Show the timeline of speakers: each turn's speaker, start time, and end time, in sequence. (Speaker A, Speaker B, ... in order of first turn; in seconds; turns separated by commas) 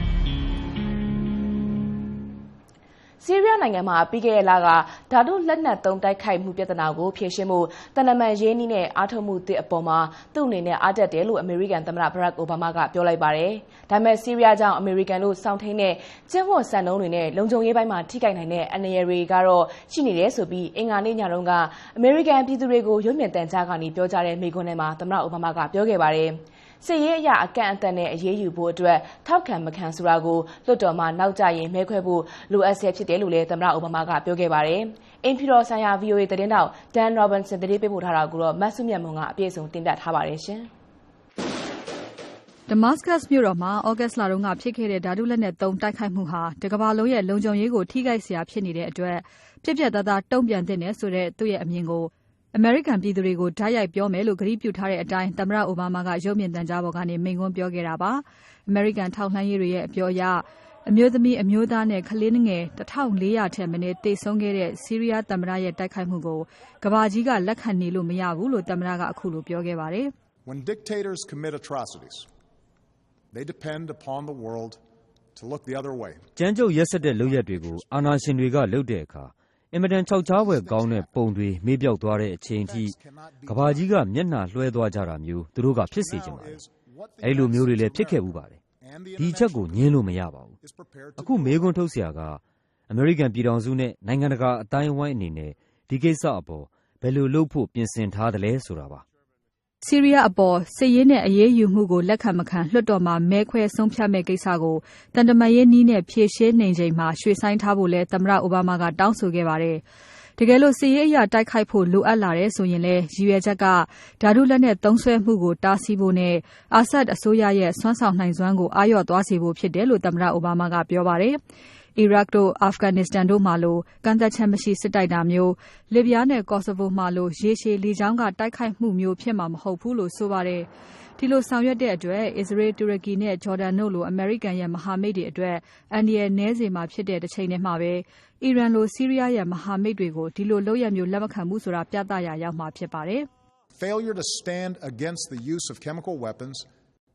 Speaker A: 3.2-40.7, Speaker B: 42.7-70.1, Speaker C: 70.5-72.3, Speaker C: 73.3-74.8, Speaker C: 75.3-78.6, Speaker D: 76.3-86.6, Speaker C: 80.2-81.1, Speaker C: 82.5-83.9, Speaker C: 85.8-90.0, Speaker D: 87.2-88.6, Speaker D: 89.2-90.5, Speaker C: 90.6-91.9, Speaker D: 91.2-99.0, Speaker B: 99.8-109.8, Speaker B: 110.4-121.4, Speaker B: 122.0-143.3, Speaker C: 143.8-146.7